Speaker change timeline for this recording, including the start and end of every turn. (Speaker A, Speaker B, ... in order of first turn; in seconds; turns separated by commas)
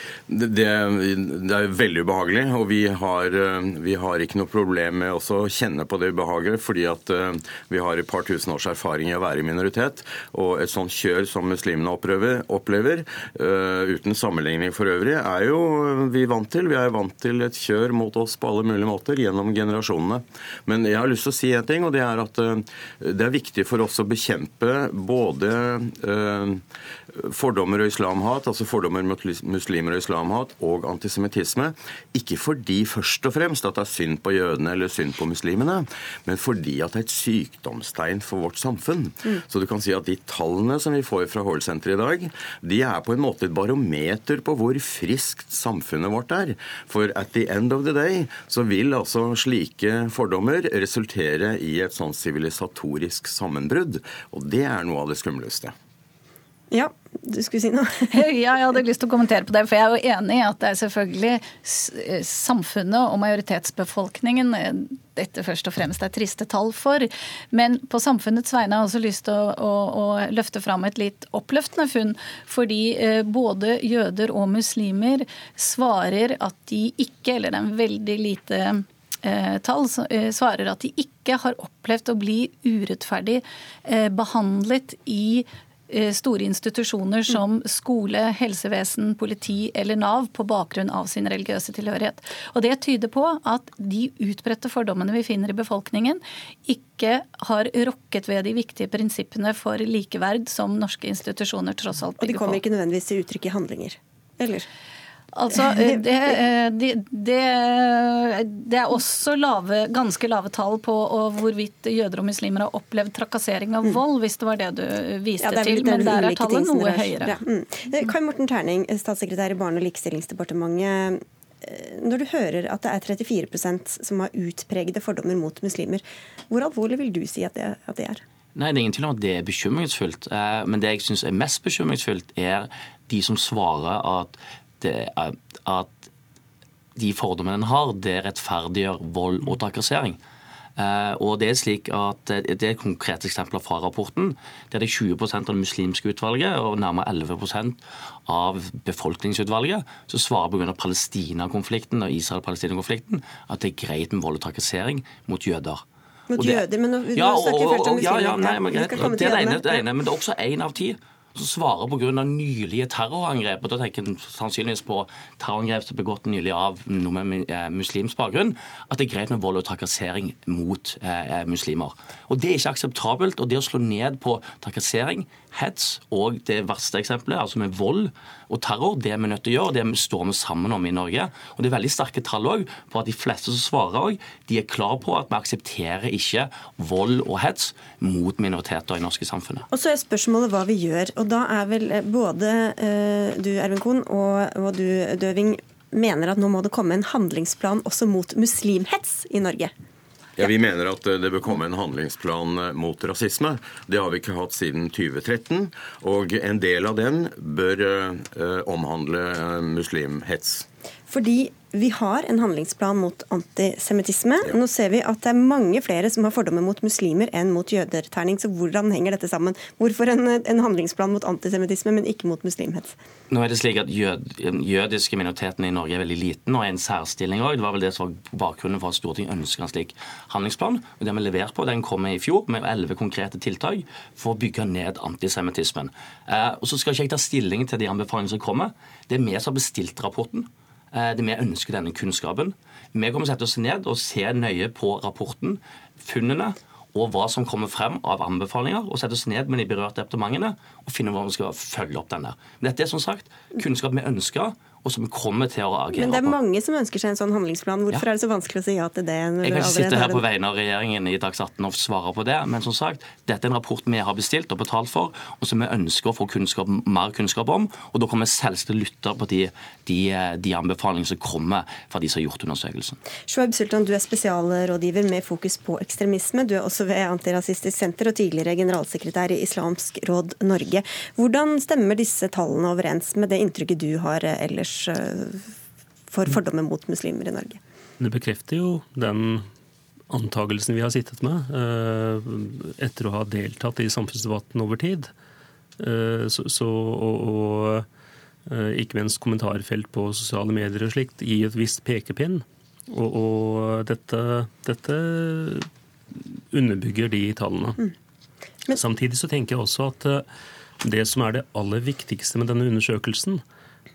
Speaker A: 0.3-55.7, Speaker B: 56.7-58.2, Speaker C: 58.1-102.6, Speaker B: 102.2-104.7, Speaker C: 105.3-117.3, Speaker B: 105.7-106.0, Speaker B: 115.4-128.2, Speaker D: 128.6-136.1, Speaker D: 136.9-140.2, Speaker D: 140.8-155.8, Speaker B: 156.3-159.8, Speaker D: 156.3-189.6, Speaker B: 189.7-199.7, Speaker A: 200.4-210.7, Speaker B: 211.1-222.9, Speaker D: 223.3-256.4, Speaker B: 255.9-260.2, Speaker D: 259.4-273.0, Speaker B: 273.3-285.5, Speaker B: 286.1-287.6, Speaker E: 288.0-289.5, Speaker E: 290.1-295.1, Speaker E: 295.8-297.9, Speaker E: 298.5-307.8, Speaker E: 308.7-310.2, Speaker E: 310.8-313.4